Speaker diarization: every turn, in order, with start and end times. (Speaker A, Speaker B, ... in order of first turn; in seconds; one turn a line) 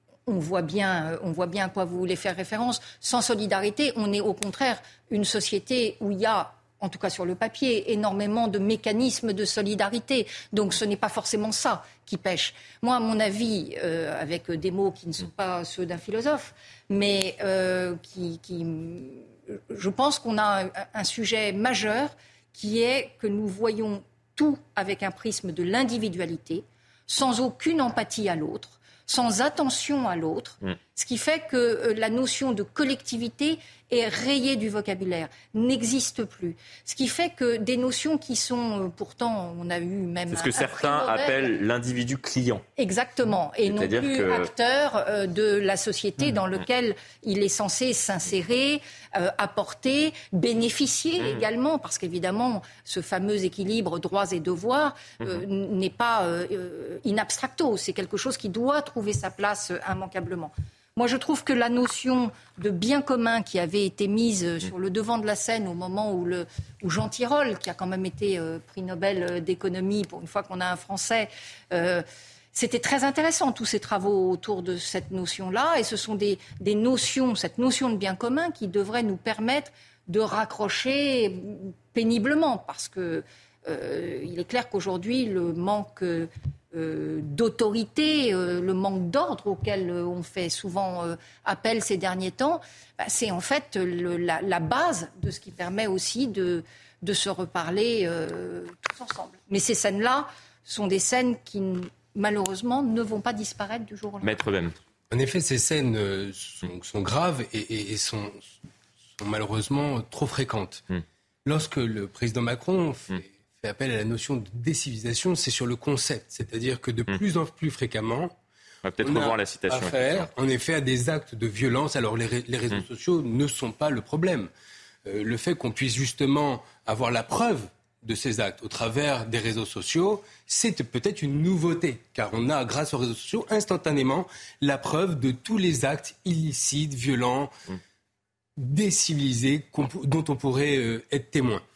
Speaker A: 0.3-41.5
Speaker B: 40.3-42.6
Speaker A: 42.8-104.4
Speaker B: 43.7-44.5
Speaker B: 104.2-104.8
Speaker C: 105.1-108.6
Speaker C: 109.2-110.8
Speaker C: 111.5-118.3
Speaker B: 118.8-120.3
Speaker C: 119.0-124.5
Speaker C: 125.1-137.5
Speaker C: 138.6-141.6